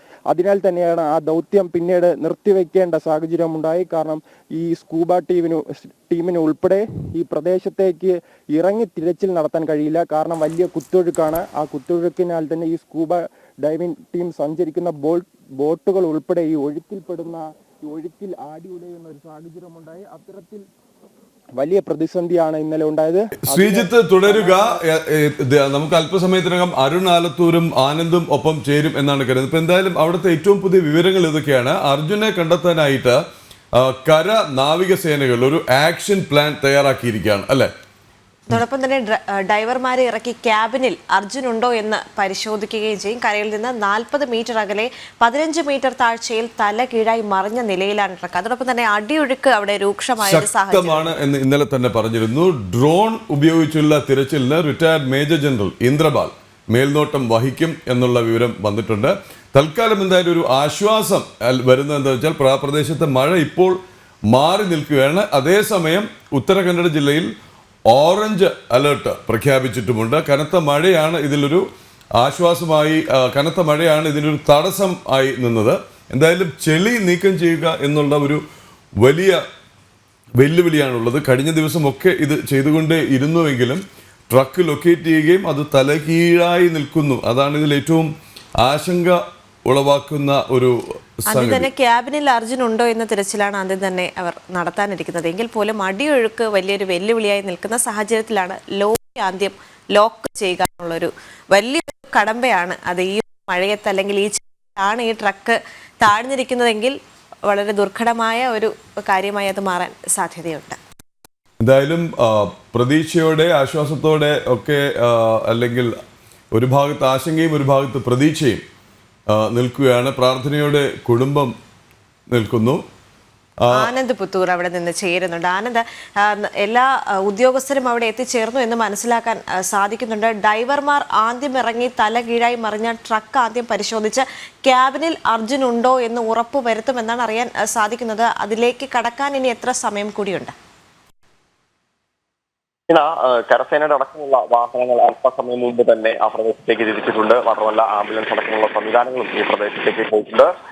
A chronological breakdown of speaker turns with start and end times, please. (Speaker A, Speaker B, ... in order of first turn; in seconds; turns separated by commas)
Speaker A: 0.3-20.6, Speaker A: 21.6-24.8, Speaker B: 23.5-33.2, Speaker B: 33.8-37.7, Speaker C: 38.5-51.1, Speaker B: 50.2-63.8, Speaker B: 64.3-67.3, Speaker B: 67.9-71.6, Speaker B: 72.2-78.4, Speaker B: 79.0-79.4, Speaker B: 80.4-91.7, Speaker C: 91.3-107.0, Speaker C: 107.5-110.8, Speaker B: 111.6-115.9, Speaker B: 116.5-118.6, Speaker B: 119.3-121.5, Speaker B: 122.3-122.8, Speaker B: 123.6-123.9, Speaker C: 123.7-140.5, Speaker D: 142.9-150.5